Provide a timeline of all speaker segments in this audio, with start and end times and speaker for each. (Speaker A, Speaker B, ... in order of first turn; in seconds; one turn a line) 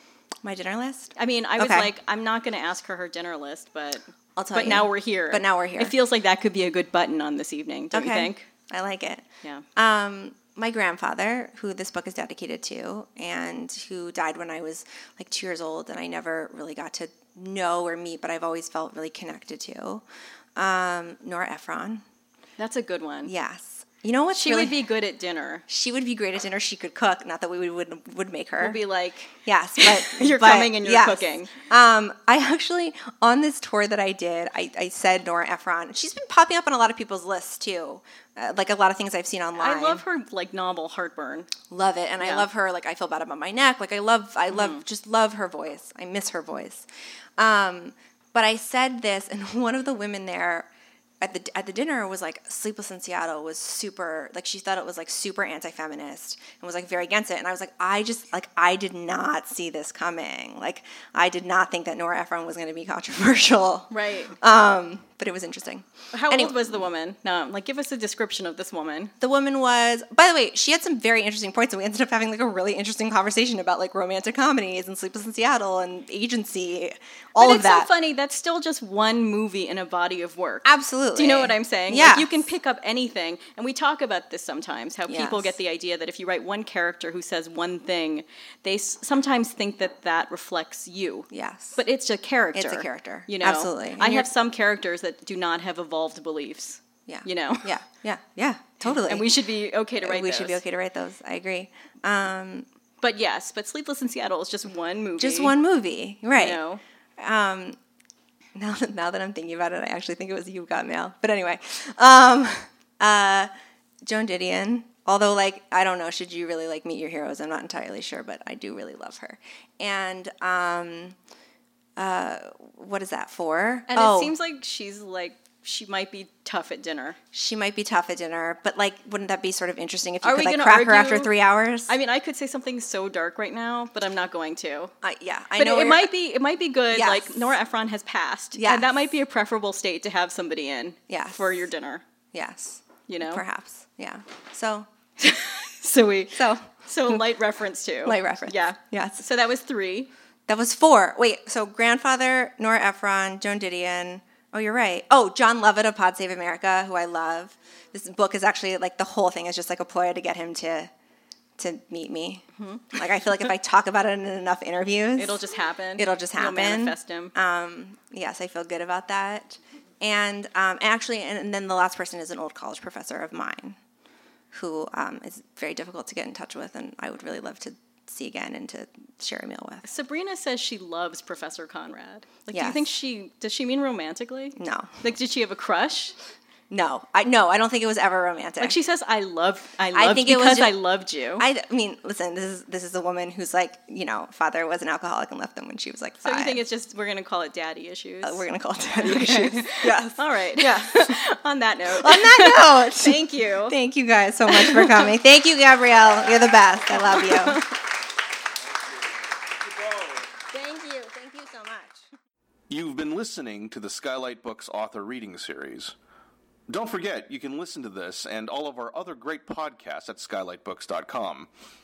Speaker A: 0.4-1.9
Speaker B: 1.1-8.5
Speaker A: 4.4-5.9
Speaker A: 7.9-9.2
Speaker A: 9.8-20.0
Speaker A: 20.6-22.0
Speaker B: 22.6-23.3
Speaker A: 23.3-24.8
Speaker B: 24.3-25.6
Speaker A: 25.7-28.8
Speaker B: 28.6-31.5
Speaker A: 29.4-40.0
Speaker B: 39.5-41.5
Speaker A: 41.7-46.8
Speaker B: 42.2-42.5
Speaker B: 44.5-44.8
Speaker A: 47.4-50.7
Speaker A: 51.2-66.8
Speaker B: 63.9-64.3
Speaker B: 66.1-69.1
Speaker A: 69.2-77.9
Speaker B: 77.4-97.7
Speaker A: 80.6-82.4
Speaker A: 85.1-85.5
Speaker A: 91.3-91.8
Speaker A: 92.5-94.3
Speaker A: 97.1-99.3
Speaker B: 98.8-100.6
Speaker A: 100.0-102.7
Speaker B: 103.0-105.6
Speaker A: 105.2-106.6
Speaker B: 106.4-106.8
Speaker A: 107.2-107.8
Speaker A: 108.5-113.5
Speaker A: 114.0-121.1
Speaker A: 122.0-124.3
Speaker B: 123.9-127.2
Speaker A: 127.3-131.9
Speaker B: 130.2-131.3
Speaker B: 131.9-134.9
Speaker A: 135.0-136.1
Speaker B: 135.6-142.0
Speaker A: 136.9-137.4
Speaker A: 138.6-138.9
Speaker A: 141.1-141.5
Speaker A: 142.3-144.9
Speaker B: 143.1-143.4
Speaker B: 145.2-150.1
Speaker A: 146.3-147.2
Speaker A: 148.0-149.2
Speaker A: 150.5-160.9
Speaker A: 161.6-165.4
Speaker B: 162.6-162.9
Speaker B: 165.2-167.3
Speaker A: 166.0-173.8
Speaker A: 174.5-179.8
Speaker B: 179.8-186.2
Speaker A: 182.5-182.8
Speaker A: 184.6-184.9
Speaker A: 186.7-188.8
Speaker B: 188.6-191.4
Speaker A: 189.9-190.8
Speaker A: 191.4-196.6
Speaker B: 196.2-198.4
Speaker A: 198.2-201.2
Speaker B: 199.0-203.8
Speaker A: 201.9-207.6
Speaker B: 204.5-205.1
Speaker B: 206.9-207.7
Speaker A: 210.4-212.1
Speaker C: 212.7-215.9
Speaker C: 216.7-221.5